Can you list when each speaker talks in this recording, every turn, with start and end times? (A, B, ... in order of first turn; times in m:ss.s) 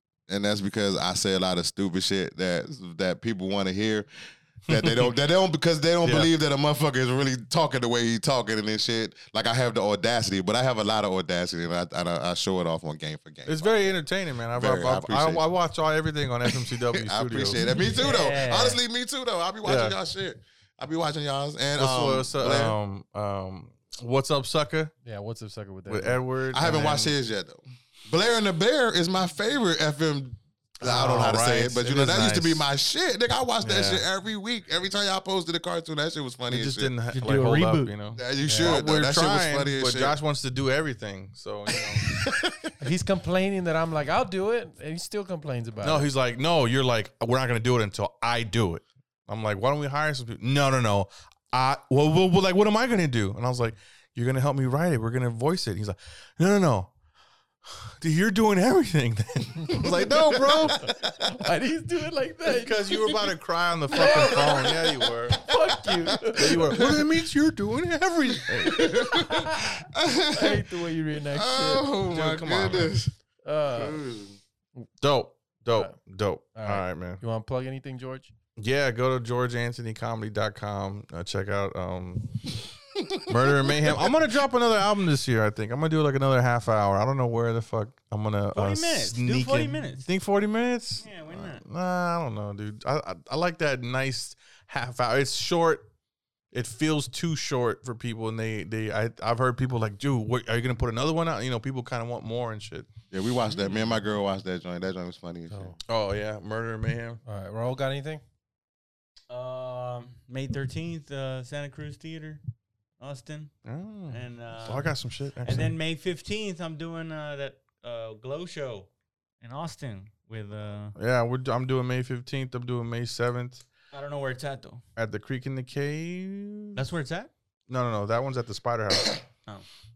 0:00.3-0:04.1 A
0:04.7-0:14.0 A
0:04.7-0:05.1 B
0:06.0-0:06.3 B
0:13.5-0:17.6 B
0:14.6-0:15.4 A
0:16.5-0:22.8 A
0:17.6-0:18.8 C
0:19.6-0:20.0 B
0:21.8-0:24.9 B
0:25.0-0:26.2 C
0:25.9-0:27.1 B
0:26.5-0:36.9 A
0:30.8-0:32.6 B
0:33.6-0:34.0 B
0:36.5-0:42.1 B
0:37.1-0:37.9 D
0:38.1-0:40.2 A
0:38.4-0:38.8 C
0:41.8-0:42.7 A
0:42.8-0:46.1 C
0:45.8-0:56.9 B
0:57.7-1:01.0 B
0:59.8-1:00.7 A
1:00.8-1:03.2 C
1:02.5-1:05.6 B
1:03.9-1:06.8 C
1:04.0-1:04.6 A
1:06.2-1:07.1 A
1:06.2-1:09.2 B
1:08.5-1:13.1 A
1:09.0-1:11.9 C
1:12.1-1:13.0 B
1:13.4-1:14.0 C
1:13.7-1:14.4 A
1:15.0-1:17.2 B
1:16.6-1:18.3 C
1:18.6-1:22.6 B
1:23.0-1:24.1 A
1:23.2-1:35.9 B
1:28.6-1:30.1 D
1:31.0-1:31.6 D
1:36.5-1:42.9 B
1:43.1-1:45.8 A
1:45.5-1:45.8 C
1:45.9-1:47.2 B
1:47.2-1:48.2 C
1:49.3-1:52.4 D
1:53.0-1:53.5 D
1:53.6-1:55.7 B
1:54.1-1:58.9 D
1:59.4-2:01.0 D
2:01.0-2:03.7 B
2:03.9-2:04.8 D
2:05.0-2:06.8 B
2:06.8-2:07.3 D
2:07.7-2:09.2 B